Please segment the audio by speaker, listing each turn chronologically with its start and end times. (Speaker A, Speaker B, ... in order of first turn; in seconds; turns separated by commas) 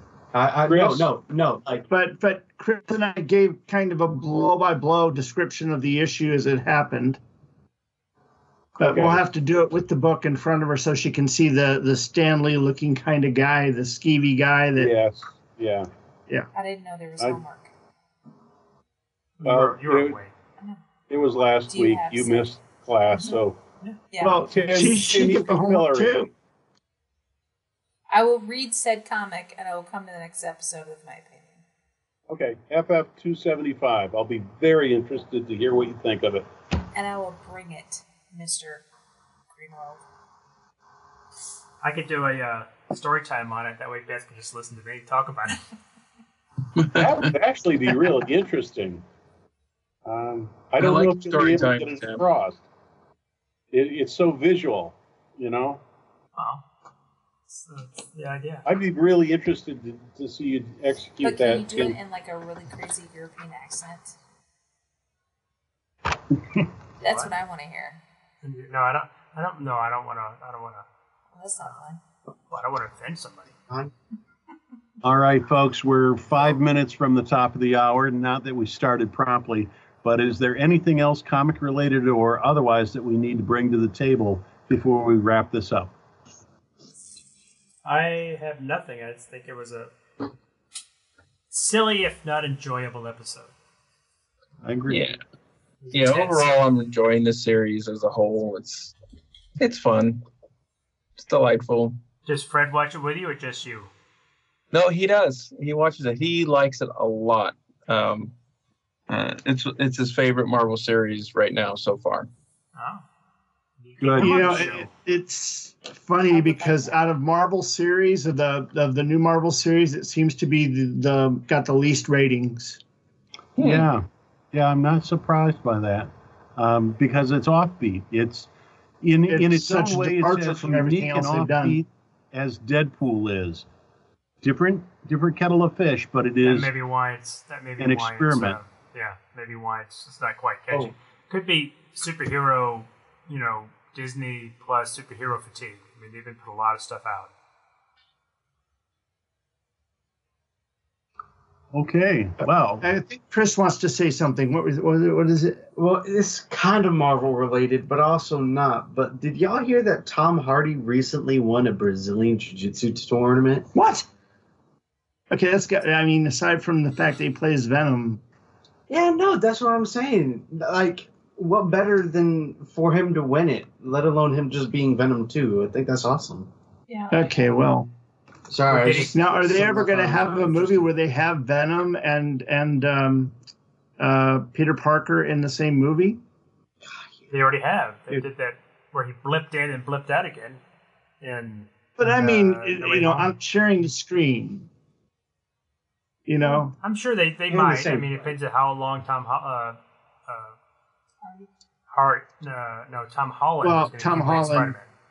Speaker A: 0.3-1.9, Speaker B: 0.7-1.1, Speaker C: 1.9-7.2, Speaker C: 8.8-14.9, Speaker B: 8.8-9.2, Speaker B: 14.8-15.9, Speaker D: 16.5-17.7, Speaker E: 19.4-20.3, Speaker B: 19.4-20.2, Speaker B: 21.1-23.6, Speaker D: 21.7-22.4, Speaker D: 24.1-24.4, Speaker C: 24.2-26.3, Speaker B: 24.5-26.3, Speaker D: 28.1-31.6, Speaker B: 32.3-36.5, Speaker D: 36.9-38.9, Speaker D: 39.5-40.0, Speaker E: 41.8-45.7, Speaker F: 46.7-47.3, Speaker B: 46.9-49.0, Speaker B: 50.0-52.6, Speaker F: 50.8-52.2, Speaker B: 53.7-55.8, Speaker E: 56.4-56.6, Speaker E: 57.5-58.6, Speaker B: 58.6-62.0, Speaker D: 61.2-64.2, Speaker D: 67.0-68.0, Speaker E: 67.0-67.3, Speaker E: 68.4-70.8, Speaker D: 71.3-72.0, Speaker E: 72.5-73.5, Speaker B: 75.0-85.9, Speaker E: 87.8-89.9, Speaker E: 91.5-93.5, Speaker B: 94.6-95.1, Speaker F: 94.9-95.2, Speaker E: 95.8-96.5, Speaker F: 95.9-98.9, Speaker F: 99.6-100.2, Speaker F: 101.2-102.0, Speaker E: 102.2-103.9, Speaker F: 104.7-108.3, Speaker F: 109.1-112.3, Speaker E: 112.7-113.0, Speaker E: 113.8-114.9, Speaker B: 114.0-114.9, Speaker C: 114.2-122.8, Speaker D: 116.3-117.0, Speaker F: 123.6-123.9, Speaker B: 123.6-128.5, Speaker B: 129.0-133.7, Speaker C: 129.3-131.8, Speaker B: 134.4-136.7, Speaker E: 136.4-147.3, Speaker B: 137.8-138.6, Speaker B: 151.7-152.8, Speaker C: 152.8-155.7, Speaker A: 155.8-163.7, Speaker C: 163.7-164.1, Speaker C: 165.3-168.2, Speaker A: 168.9-176.5, Speaker D: 176.9-177.5, Speaker C: 177.1-177.9, Speaker A: 178.5-180.9, Speaker E: 178.7-179.1, Speaker C: 178.9-183.3, Speaker C: 184.0-186.2, Speaker E: 187.3-190.6, Speaker E: 191.2-193.3, Speaker C: 192.0-194.7, Speaker C: 196.2-196.7, Speaker E: 196.8-200.6, Speaker A: 197.5-198.3, Speaker D: 201.2-201.5, Speaker E: 201.9-204.9, Speaker C: 203.6-204.8